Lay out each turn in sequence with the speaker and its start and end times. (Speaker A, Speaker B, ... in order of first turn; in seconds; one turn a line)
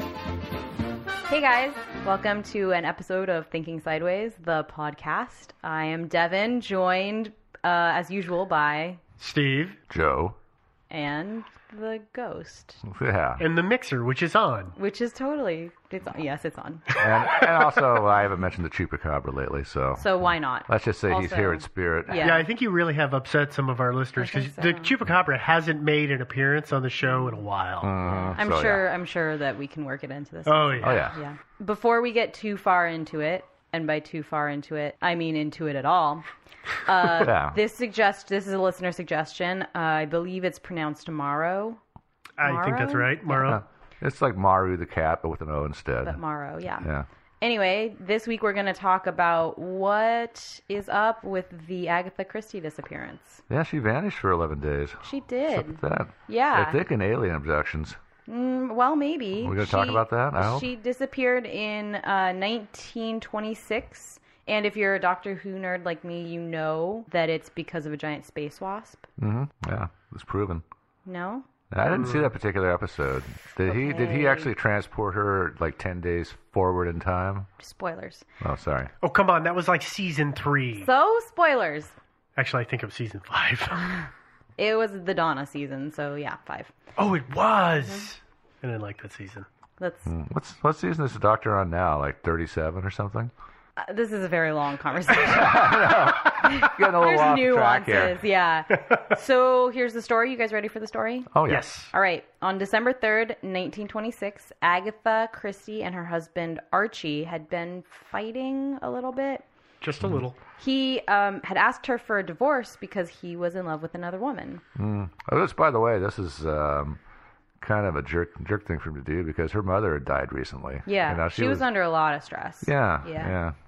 Speaker A: 1.3-9.0
Speaker B: 9.2-9.8
Speaker C: 9.9-10.4
Speaker A: 10.9-12.8
Speaker C: 12.9-13.4
Speaker B: 13.4-14.7
Speaker A: 14.8-16.9
Speaker C: 16.9-20.2
Speaker A: 20.0-22.4
Speaker C: 20.7-22.3
Speaker B: 22.2-27.9
Speaker A: 24.2-24.9
Speaker A: 27.1-27.4
Speaker C: 27.8-28.9
Speaker A: 28.1-36.2
Speaker B: 30.5-31.1
Speaker C: 30.8-31.2
Speaker A: 36.9-41.8
Speaker C: 37.1-37.6
Speaker B: 42.4-43.6
Speaker A: 42.4-43.5
Speaker C: 43.5-46.2
Speaker A: 46.0-46.9
Speaker A: 47.4-53.4
Speaker C: 53.5-58.0
Speaker A: 55.0-56.8
Speaker A: 58.3-69.1
Speaker C: 59.4-60.7
Speaker C: 69.2-70.6
Speaker A: 71.0-71.5
Speaker C: 71.7-77.5
Speaker B: 71.9-72.3
Speaker A: 73.7-74.5
Speaker A: 77.6-78.2
Speaker C: 78.4-78.9
Speaker B: 79.0-80.9
Speaker A: 80.8-81.9
Speaker B: 82.4-84.0
Speaker A: 84.6-86.7
Speaker B: 87.0-89.5
Speaker A: 89.8-90.1
Speaker C: 90.1-93.3
Speaker A: 93.8-101.3
Speaker C: 95.2-98.2
Speaker C: 101.3-101.7
Speaker B: 101.5-101.9
Speaker A: 101.9-109.5
Speaker B: 109.8-110.4
Speaker A: 110.6-114.6
Speaker C: 114.8-117.0
Speaker C: 117.6-121.7
Speaker A: 120.9-123.3
Speaker C: 122.6-123.5